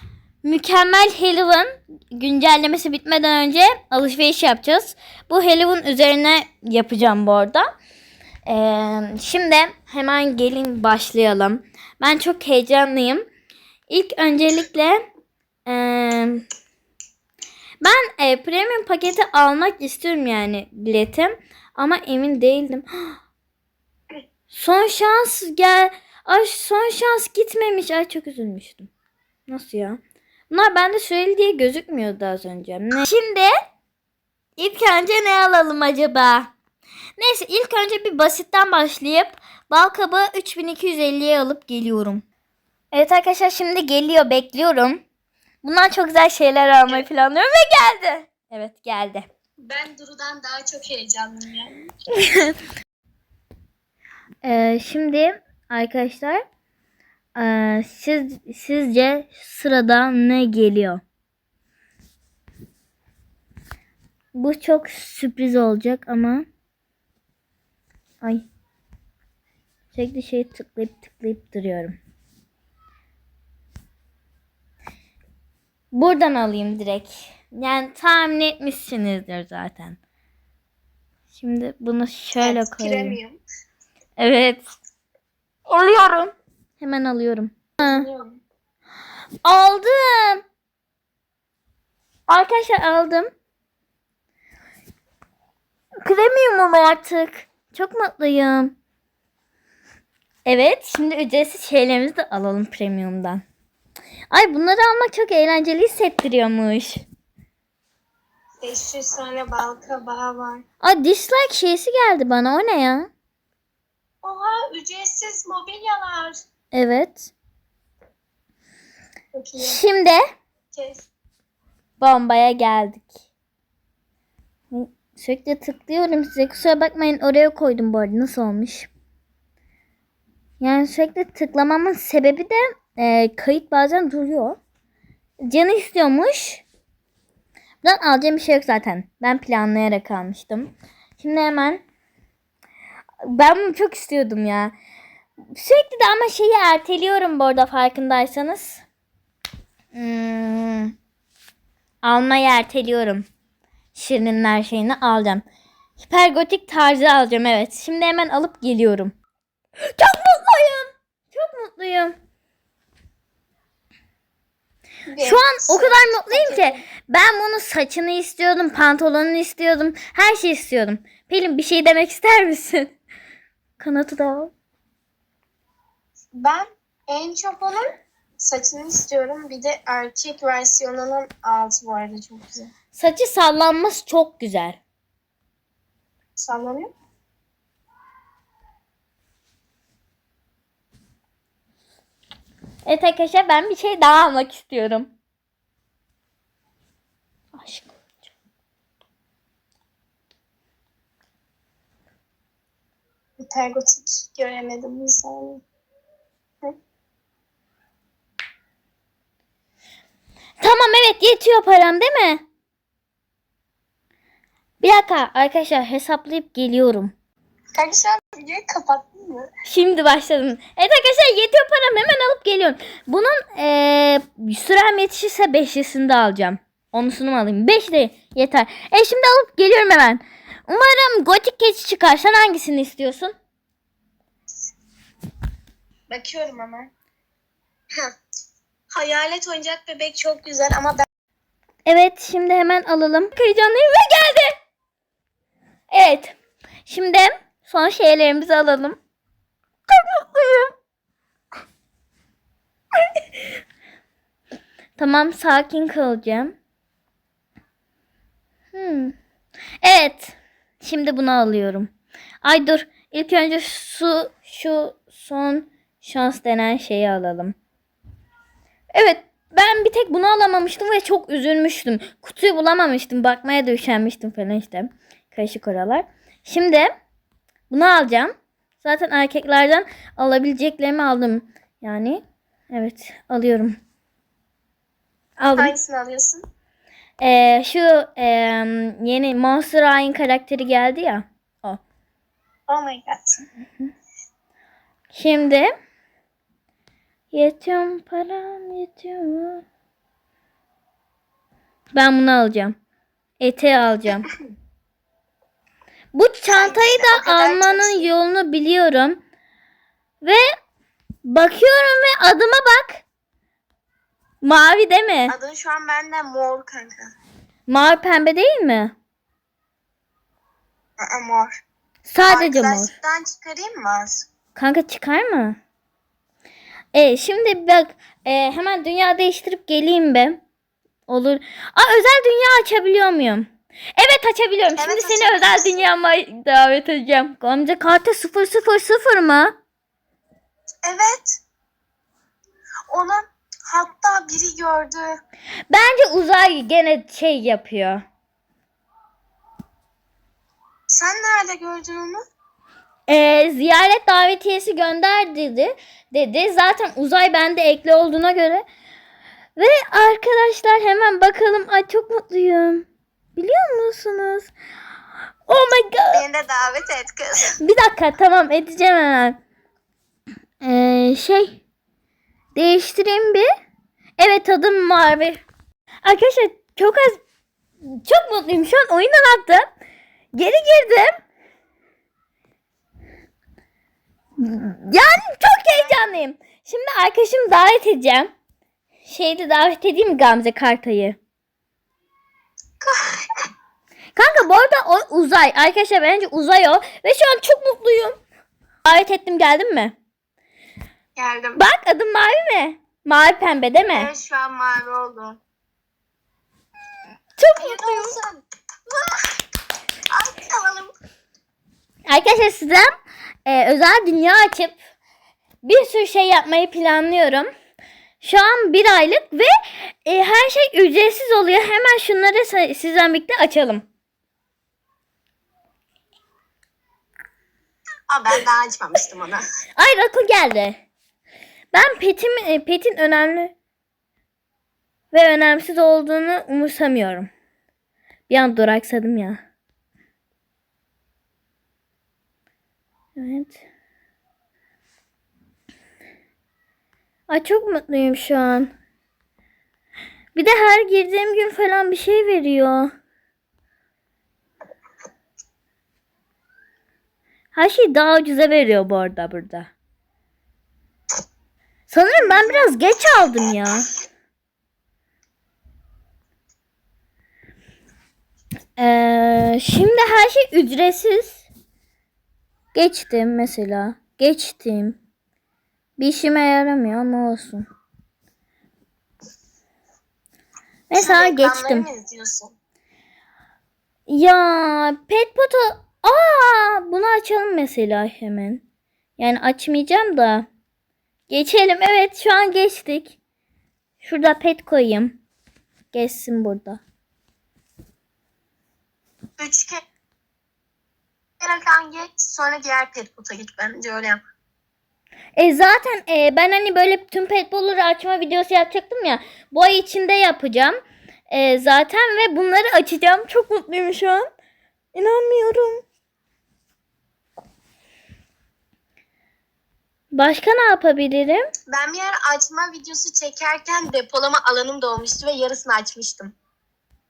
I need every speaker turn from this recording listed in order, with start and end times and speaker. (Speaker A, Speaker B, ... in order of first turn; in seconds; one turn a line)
Speaker A: 0.4-7.7
Speaker A: 8.4-13.2
Speaker A: 13.9-15.0
Speaker A: 15.7-16.4
Speaker A: 17.8-23.1
Speaker A: 24.5-28.9
Speaker A: 29.5-33.5
Speaker A: 34.6-36.5
Speaker A: 37.2-42.2
Speaker A: 42.9-45.0
Speaker A: 45.6-49.2
Speaker B: 49.6-51.8
Speaker A: 52.1-52.5
Speaker A: 54.4-56.4
Speaker A: 57.4-61.0
Speaker A: 64.3-66.5
Speaker A: 69.9-72.0
Speaker A: 75.9-80.0
Speaker A: 81.3-83.2
Speaker B: 82.4-83.4
Speaker A: 84.2-84.6
Speaker A: 85.7-88.1
Speaker B: 87.8-88.4
Speaker A: 89.4-90.4
Speaker A: 92.3-93.3
Speaker A: 96.0-98.7
Speaker A: 100.5-103.4
Speaker A: 104.3-107.0
Speaker B: 108.6-110.6
Speaker A: 110.8-113.1
Speaker B: 114.2-116.4
Speaker A: 116.7-117.3
Speaker B: 119.3-119.8
Speaker A: 119.6-120.2
Speaker B: 120.7-121.1
Speaker A: 122.0-123.1
Speaker A: 124.7-128.9
Speaker A: 130.6-134.6
Speaker A: 135.4-136.6
Speaker A: 137.8-141.8
Speaker A: 143.2-144.7
Speaker A: 145.5-148.8
Speaker A: 149.9-150.9
Speaker A: 152.0-153.3
Speaker A: 153.9-155.4
Speaker A: 156.0-159.1
Speaker A: 159.8-162.1
Speaker B: 165.1-166.8
Speaker A: 165.2-172.9
Speaker A: 173.8-174.5
Speaker B: 176.3-177.9
Speaker B: 178.4-182.7
Speaker A: 182.9-184.8
Speaker B: 186.4-186.9
Speaker A: 192.8-195.1
Speaker A: 197.5-198.1
Speaker B: 203.4-205.6
Speaker A: 210.6-212.4
Speaker A: 214.8-217.1
Speaker B: 217.7-219.5
Speaker A: 219.7-233.3
Speaker B: 236.1-236.9
Speaker B: 238.9-241.1
Speaker A: 241.8-244.5
Speaker A: 245.9-249.0
Speaker A: 249.9-250.7
Speaker A: 255.0-256.5
Speaker A: 258.7-259.1
Speaker A: 259.8-261.9
Speaker A: 262.4-267.5
Speaker A: 268.9-276.9
Speaker A: 277.7-283.8
Speaker A: 285.4-285.7
Speaker B: 285.6-286.4
Speaker A: 287.2-291.8
Speaker B: 292.7-293.4
Speaker A: 295.1-295.7
Speaker A: 297.3-299.6
Speaker A: 301.9-302.7
Speaker A: 303.4-304.3
Speaker A: 306.1-309.2
Speaker B: 306.5-308.1
Speaker A: 311.2-313.0
Speaker A: 314.4-315.3
Speaker B: 315.3-317.1
Speaker A: 317.7-318.9
Speaker B: 321.0-321.6
Speaker A: 322.1-322.9
Speaker B: 322.3-324.3
Speaker A: 324.5-325.6
Speaker A: 326.9-330.4
Speaker A: 331.1-339.5
Speaker B: 334.8-335.8
Speaker B: 340.8-341.4
Speaker B: 342.9-345.1
Speaker A: 345.7-348.0
Speaker B: 350.9-352.2
Speaker A: 353.1-358.6
Speaker A: 359.6-364.5
Speaker A: 365.5-366.2
Speaker B: 366.1-367.6
Speaker A: 367.6-369.4
Speaker A: 370.6-371.6
Speaker A: 372.5-373.5
Speaker A: 374.2-375.4
Speaker A: 376.0-377.2
Speaker A: 378.0-379.6
Speaker A: 380.3-381.1
Speaker A: 384.4-388.3
Speaker A: 389.0-391.2
Speaker B: 392.8-393.3
Speaker A: 394.1-398.1
Speaker A: 398.8-399.9
Speaker B: 401.1-401.6
Speaker A: 401.6-404.1
Speaker B: 403.9-405.4
Speaker A: 407.4-408.1
Speaker B: 407.6-409.3
Speaker B: 410.1-410.9
Speaker A: 412.1-412.9
Speaker A: 413.4-414.8
Speaker A: 415.6-417.5
Speaker A: 418.2-423.8
Speaker B: 428.1-429.4
Speaker A: 429.8-430.8
Speaker A: 431.7-433.5
Speaker A: 435.1-437.3
Speaker A: 438.3-439.4
Speaker A: 443.1-443.6
Speaker A: 447.3-448.7
Speaker A: 450.3-452.9
Speaker A: 457.5-459.7
Speaker A: 461.9-463.9
Speaker B: 462.2-462.7
Speaker A: 468.8-471.4
Speaker A: 472.7-475.0
Speaker A: 476.0-477.6
Speaker A: 480.9-481.9
Speaker B: 480.9-482.5
Speaker A: 484.1-488.6
Speaker A: 489.2-490.5
Speaker A: 491.3-493.2
Speaker A: 494.0-495.2
Speaker A: 495.9-496.8
Speaker B: 499.4-499.8
Speaker B: 501.4-504.2
Speaker A: 505.4-514.2
Speaker A: 514.9-515.8
Speaker A: 520.1-521.4
Speaker B: 521.7-526.3